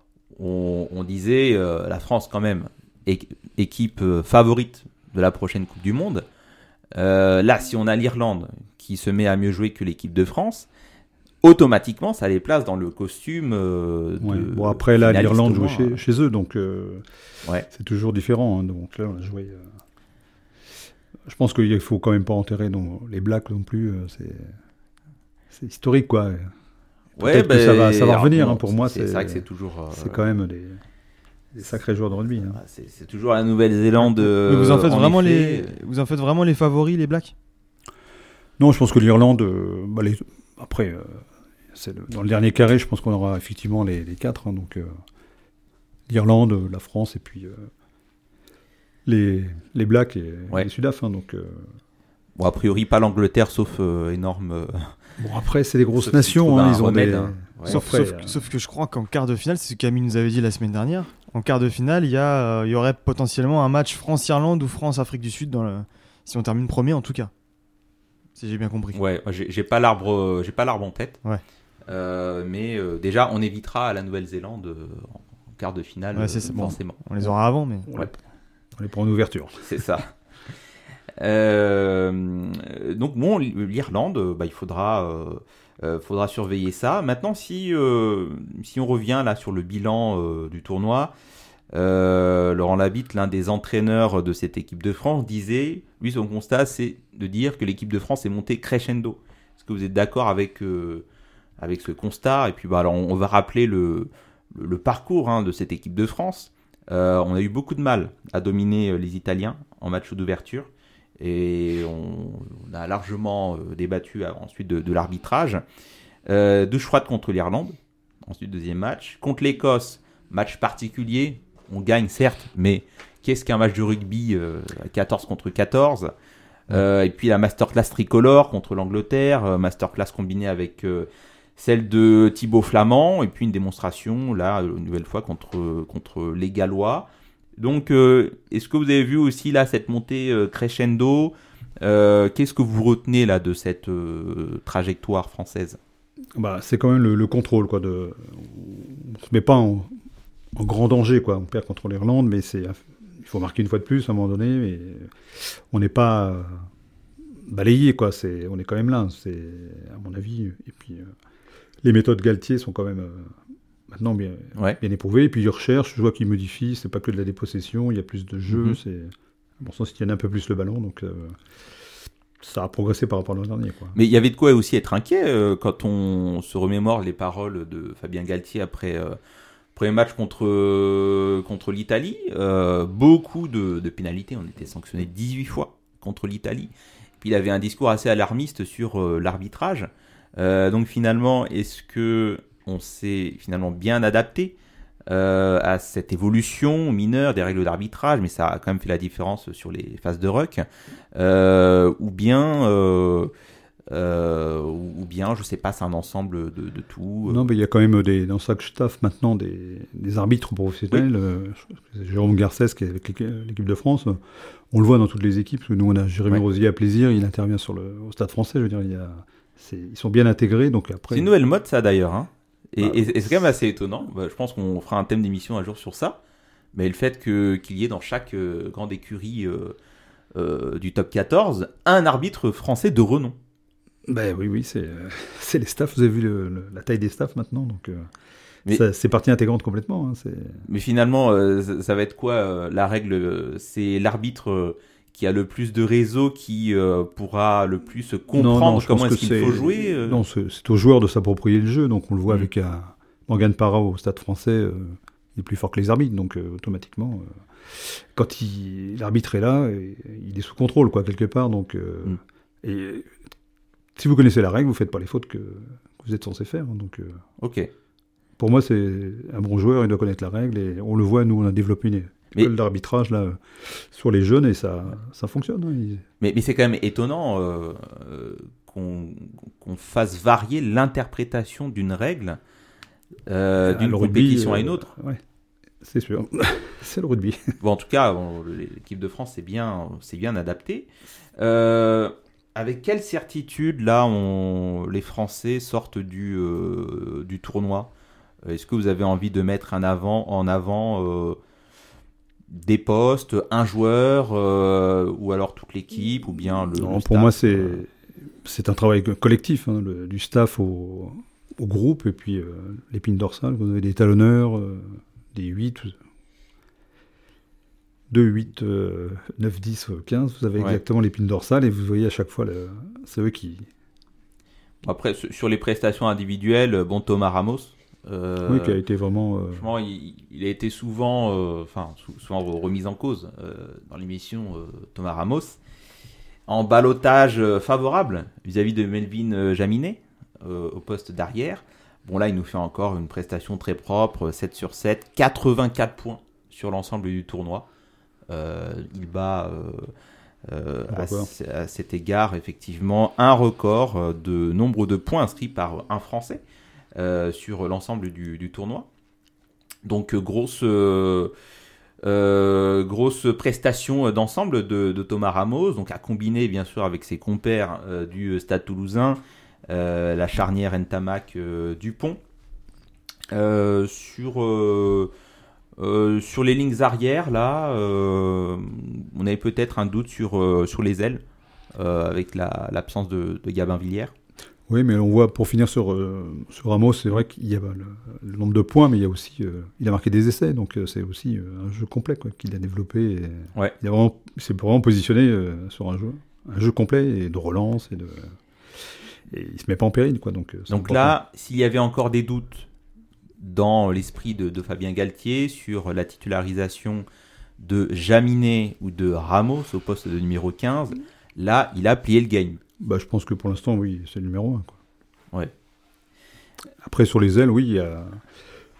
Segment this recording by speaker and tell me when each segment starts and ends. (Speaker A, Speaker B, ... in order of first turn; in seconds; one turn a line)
Speaker A: 0.3-6.2
Speaker A: 7.0-10.7
Speaker A: 11.4-16.0
Speaker B: 14.2-17.0
Speaker B: 17.7-19.7
Speaker B: 21.3-24.5
Speaker B: 25.5-26.5
Speaker A: 27.2-30.2
Speaker B: 27.2-30.8
Speaker B: 31.5-32.6
Speaker A: 32.5-35.7
Speaker C: 34.4-37.3
Speaker B: 38.6-45.0
Speaker B: 46.1-47.7
Speaker B: 49.0-51.8
Speaker A: 52.4-54.9
Speaker B: 55.2-58.4
Speaker A: 56.0-57.8
Speaker C: 57.7-67.3
Speaker C: 68.3-69.0
Speaker A: 68.9-71.2
Speaker A: 71.9-77.0
Speaker C: 76.1-77.9
Speaker B: 77.8-78.1
Speaker B: 78.8-79.7
Speaker A: 79.6-80.1
Speaker A: 81.2-91.1
Speaker A: 91.7-101.0
Speaker A: 101.6-110.7
Speaker A: 111.2-115.6
Speaker A: 116.3-126.1
Speaker A: 126.7-137.1
Speaker A: 137.6-145.8
Speaker B: 146.3-149.9
Speaker B: 150.5-156.7
Speaker B: 157.4-161.1
Speaker B: 161.8-163.4
Speaker B: 163.9-171.4
Speaker A: 168.5-168.8
Speaker B: 172.4-174.0
Speaker A: 173.9-179.2
Speaker A: 179.7-194.5
Speaker A: 195.1-200.6
Speaker A: 201.1-203.3
Speaker A: 203.9-207.4
Speaker B: 207.2-221.3
Speaker A: 221.1-226.2
Speaker B: 222.8-223.2
Speaker A: 226.7-229.8
Speaker A: 230.3-233.3
Speaker B: 234.1-238.1
Speaker B: 238.7-240.6
Speaker A: 240.7-250.2
Speaker B: 248.3-263.1
Speaker B: 263.9-267.2
Speaker A: 267.4-267.7
Speaker B: 268.4-276.0
Speaker A: 276.2-282.4
Speaker A: 283.3-284.9
Speaker B: 283.6-285.2
Speaker B: 285.8-287.5
Speaker A: 287.6-297.9
Speaker A: 298.4-301.4
Speaker A: 302.5-307.8
Speaker B: 306.7-307.9
Speaker B: 308.4-315.9
Speaker B: 318.1-323.7
Speaker A: 324.8-328.8
Speaker B: 328.4-329.7
Speaker A: 329.5-335.6
Speaker A: 336.5-347.7
Speaker A: 348.3-349.9
Speaker A: 350.5-356.4
Speaker B: 350.9-351.3
Speaker A: 356.9-358.9
Speaker A: 359.8-361.3
Speaker A: 362.0-372.2
Speaker A: 373.3-375.1
Speaker A: 375.8-381.2
Speaker A: 381.7-384.1
Speaker B: 384.7-398.3
Speaker B: 399.3-401.1
Speaker A: 400.7-402.7
Speaker A: 403.4-407.1
Speaker A: 407.6-412.6
Speaker B: 412.8-414.8
Speaker B: 416.8-418.2